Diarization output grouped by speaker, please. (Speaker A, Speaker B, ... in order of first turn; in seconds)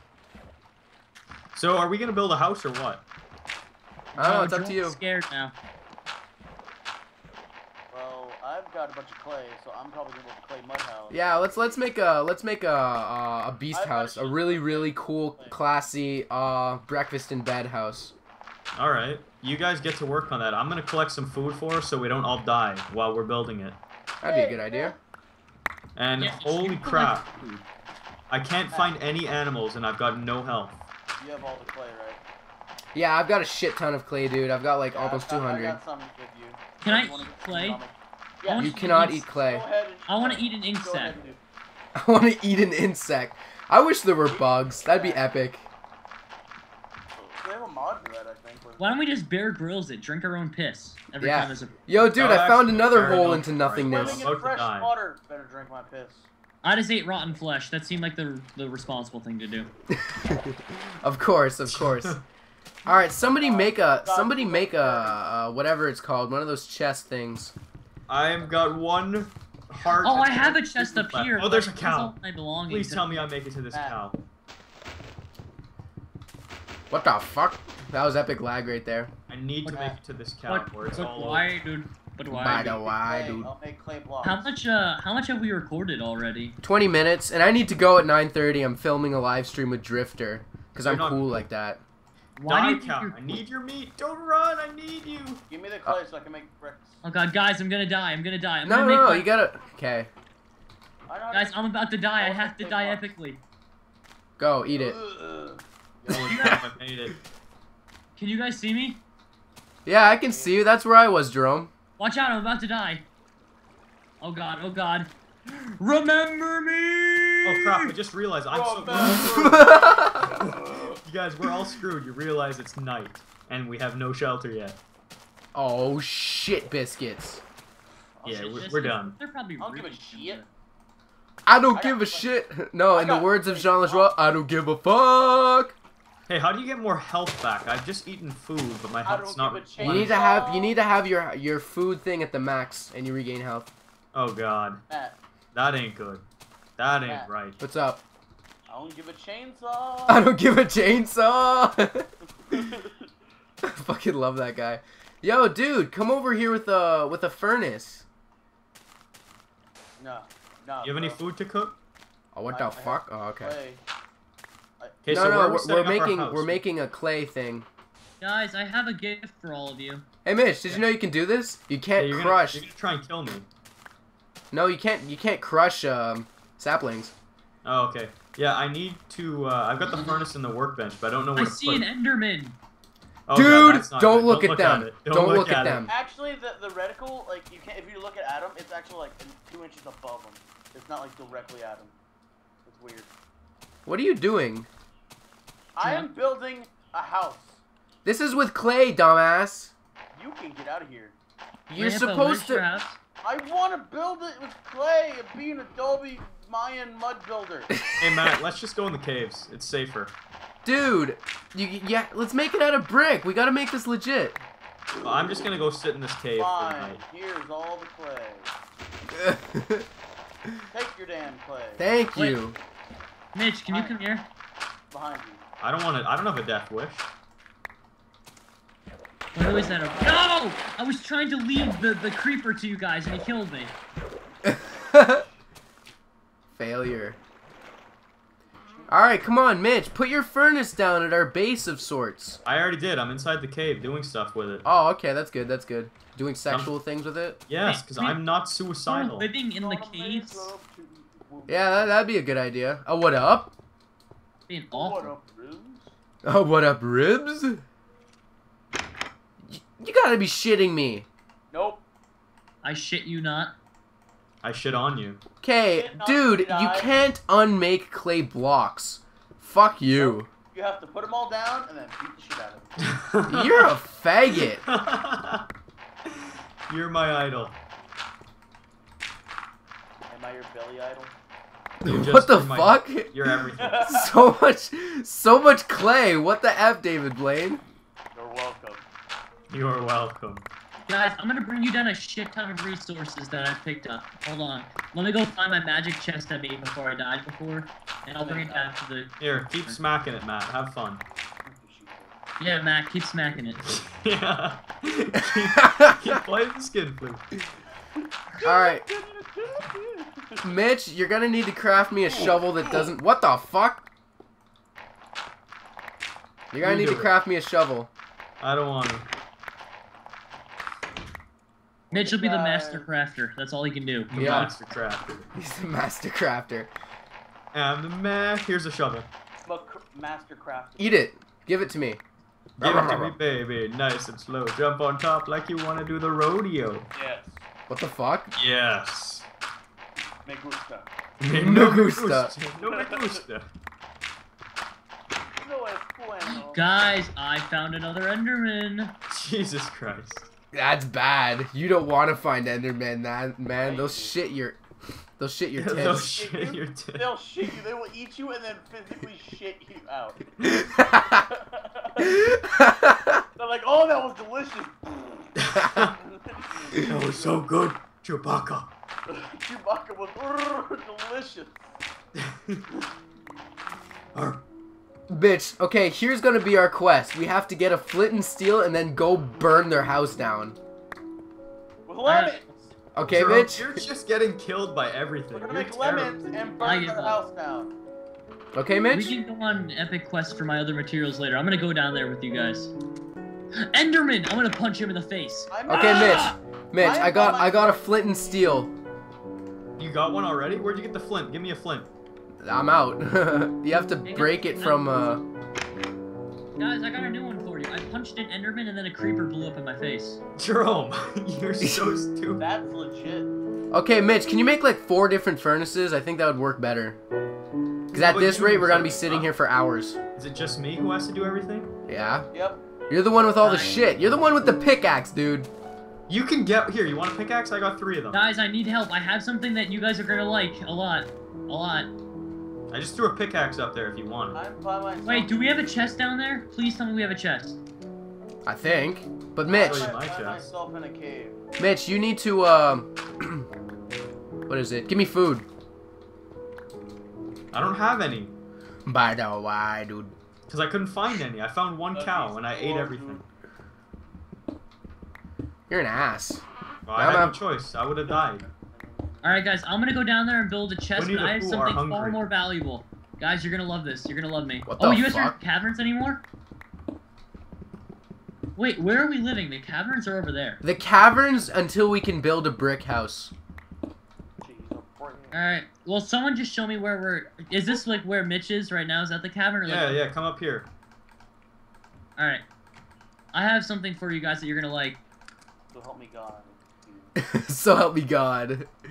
Speaker A: 1.5-3.0, 18.8-23.8, 26.0-27.3, 28.3-30.8, 52.1-54.9, 61.7-62.2, 68.1-74.2, 79.3-81.5, 90.8-91.4, 92.4-95.4, 106.1-107.2, 117.4-119.6, 121.0-124.8, 128.2-129.2, 136.3-140.2, 144.1-144.8, 145.5-146.2, 146.8-147.6, 160.8-161.8, 165.0-166.6, 171.9-173.5, 177.6-181.9, 183.3-185.9, 208.0-210.2, 215.0-217.0, 225.6-227.1, 242.4-244.7, 246.5-246.7, 247.5-249.3, 264.4-265.2, 272.8-273.7, 274.3-275.4, 276.7-277.6, 281.9-283.8, 289.5-290.5, 299.2-301.0, 303.7-307.2, 316.6-317.1, 318.4-319.1, 324.1-325.3, 327.5-329.1, 332.6-336.9, 338.4-339.3, 341.2-343.5, 349.1-350.3, 355.6-357.1, 365.5-365.9, 366.7-368.7, 372.2-372.6, 374.1-374.4, 383.1-386.2, 399.8-401.9, 410.4-412.4, 417.9-419.3, 420.1-421.7, 426.1-428.2, 432.7-434.4, 439.5-440.5, 447.5-448.4, 450.5-453.2, 456.9-458.4, 460.9-462.2, 479.6-480.7
Speaker B: 4.2-5.0, 11.1-18.1, 24.2-24.9, 32.9-35.8, 38.6-39.7, 42.0-45.7, 51.2-54.3, 59.9-62.2, 62.9-67.5, 76.9-79.1, 82.3-83.5, 86.6-91.8, 98.7-100.1, 104.4-105.0, 109.9-111.7, 119.2-120.3, 125.5-127.4, 131.5-135.8, 139.8-143.7, 147.6-148.0, 150.1-152.6, 153.6-158.1, 162.3-163.5, 165.1-167.7, 170.2-172.7, 174.5-177.1, 183.3-185.9, 193.9-194.7, 198.1-199.7, 201.7-202.7, 207.7-208.3, 210.7-214.4, 219.1-219.9, 221.8-222.6, 234.5-235.2, 236.6-237.2, 238.9-242.4, 244.7-247.4, 251.5-253.5, 256.2-257.6, 259.4-261.1, 265.4-270.3, 273.3-274.6, 281.8-283.1, 283.8-287.6, 305.6-306.2, 308.4-308.9, 310.4-313.9, 316.5-317.9, 324.1-324.6, 325.4-326.7, 330.8-332.0, 332.6-333.2, 337.7-338.3, 341.4-342.3, 350.5-354.6, 355.2-356.1, 360.4-361.2, 362.0-363.2, 365.6-365.9, 375.1-380.6, 382.9-383.8, 388.5-389.2, 395.7-398.7, 402.4-405.2, 411.6-412.0, 413.7-417.0, 417.9-420.0, 421.9-422.3, 422.9-425.5, 438.4-439.9, 441.6-443.4, 444.5-445.5, 448.9-450.1, 455.7-456.4, 457.0-457.4, 464.6-465.4, 470.6-473.3, 487.2-488.7
Speaker C: 4.2-5.5, 26.2-27.6, 36.8-37.8, 38.5-39.3, 40.1-41.2, 48.8-51.8, 56.6-59.7, 70.0-73.2, 79.7-79.9, 80.5-82.8, 84.2-86.6, 92.4-93.4, 97.0-99.3, 101.3-103.4, 106.3-106.6, 108.2-109.0, 112.0-113.1, 114.2-117.9, 128.3-130.5, 168.2-170.1, 179.9-180.2, 181.4-182.6, 195.8-196.1, 201.8-203.0, 223.3-224.3, 229.3-233.7, 247.6-248.2, 248.9-250.5, 254.5-255.1, 262.6-263.5, 290.9-299.8, 302.4-303.6, 321.9-324.1, 346.2-348.9, 382.1-382.5, 386.6-387.2, 388.9-392.7, 393.6-396.4, 404.1-405.2, 406.6-410.2, 428.1-431.9, 435.0-437.6, 459.2-466.2, 468.6-470.6, 475.3-480.0, 482.2-482.4, 483.3-485.0
Speaker D: 7.9-11.9, 13.7-15.6, 24.2-25.0, 28.7-29.0, 31.2-32.2, 34.9-38.7, 39.3-41.4, 44.3-45.3, 47.1-49.0, 53.6-56.3, 63.2-65.2, 73.7-74.0, 79.7-80.0, 82.4-84.5, 95.5-97.0, 101.1-103.1, 104.7-106.5, 110.0-110.6, 118.5-121.0, 128.2-128.6, 129.6-130.4, 131.7-132.3, 132.9-134.1, 139.1-140.8, 144.9-145.2, 147.0-147.3, 148.7-150.3, 152.5-153.1, 160.0-161.2, 162.5-163.8, 164.8-165.3, 185.9-191.9, 192.7-193.1, 195.8-197.6, 200.1-201.2, 203.2-207.7, 216.4-218.5, 220.7-221.8, 223.7-224.0, 224.9-225.4, 229.6-230.3, 238.4-238.9, 249.6-252.0, 254.7-255.9, 261.5-261.9, 265.7-267.0, 269.9-272.8, 280.1-281.1, 283.6-284.1, 288.1-288.9, 298.2-298.7, 301.4-302.1, 308.4-310.5, 312.1-312.9, 321.9-322.9, 329.4-331.0, 336.9-337.4, 340.2-340.9, 342.6-343.2, 345.4-346.6, 353.6-354.2, 355.7-360.6, 361.1-362.2, 363.4-367.4, 369.1-371.6, 381.9-382.7, 385.3-387.7, 395.5-396.3, 396.8-397.9, 412.4-413.3, 422.3-422.8, 423.4-423.8, 434.3-435.4, 439.4-441.4, 451.9-453.2, 458.1-459.4, 474.4-475.4, 485.7-487.2